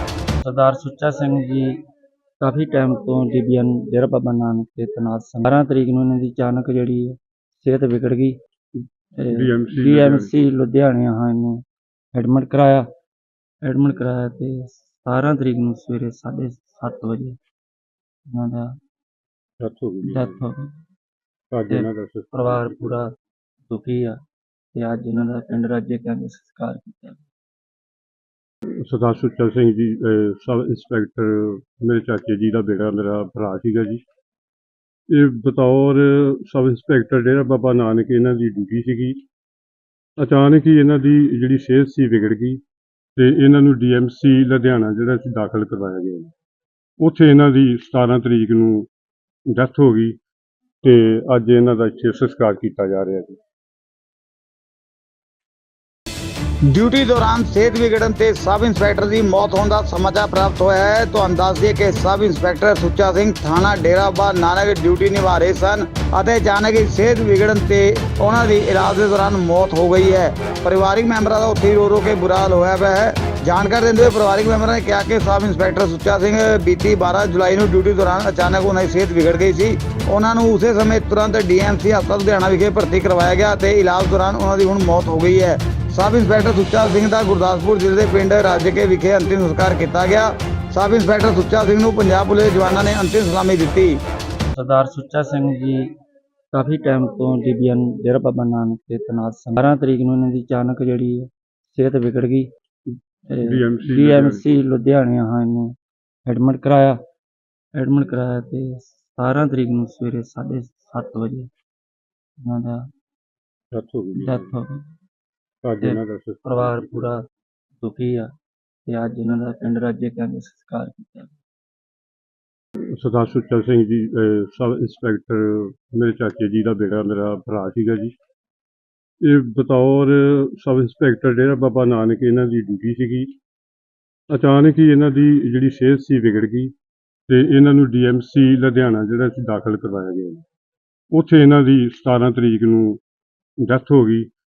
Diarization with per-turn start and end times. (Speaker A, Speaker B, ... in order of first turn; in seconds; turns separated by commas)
Speaker A: 0.4-1.8, Speaker A: 2.4-11.6, Speaker B: 9.3-10.3, Speaker A: 12.1-12.9, Speaker A: 13.6-17.4, Speaker A: 18.3-18.7, Speaker B: 19.6-20.4, Speaker A: 20.0-20.7, Speaker B: 21.5-22.9, Speaker A: 21.7-23.1, Speaker A: 23.7-24.2, Speaker A: 24.7-27.2, Speaker B: 28.7-34.0, Speaker B: 35.1-39.2, Speaker B: 40.2-42.6, Speaker B: 43.1-46.3, Speaker B: 47.0-48.9, Speaker B: 49.5-50.2, Speaker B: 50.8-53.4, Speaker C: 56.7-94.0, Speaker A: 94.5-95.9, Speaker A: 96.5-102.5, Speaker A: 103.3-105.7, Speaker B: 103.4-104.4, Speaker A: 106.3-107.0, Speaker A: 107.8-111.5, Speaker A: 112.4-112.8, Speaker B: 113.7-114.5, Speaker A: 114.2-114.9, Speaker B: 115.6-117.1, Speaker A: 115.8-117.2, Speaker A: 117.8-118.3, Speaker A: 118.9-121.3, Speaker B: 122.9-128.1, Speaker B: 129.2-133.3, Speaker B: 134.3-136.7, Speaker B: 137.3-140.4, Speaker B: 141.1-143.0, Speaker B: 143.6-144.3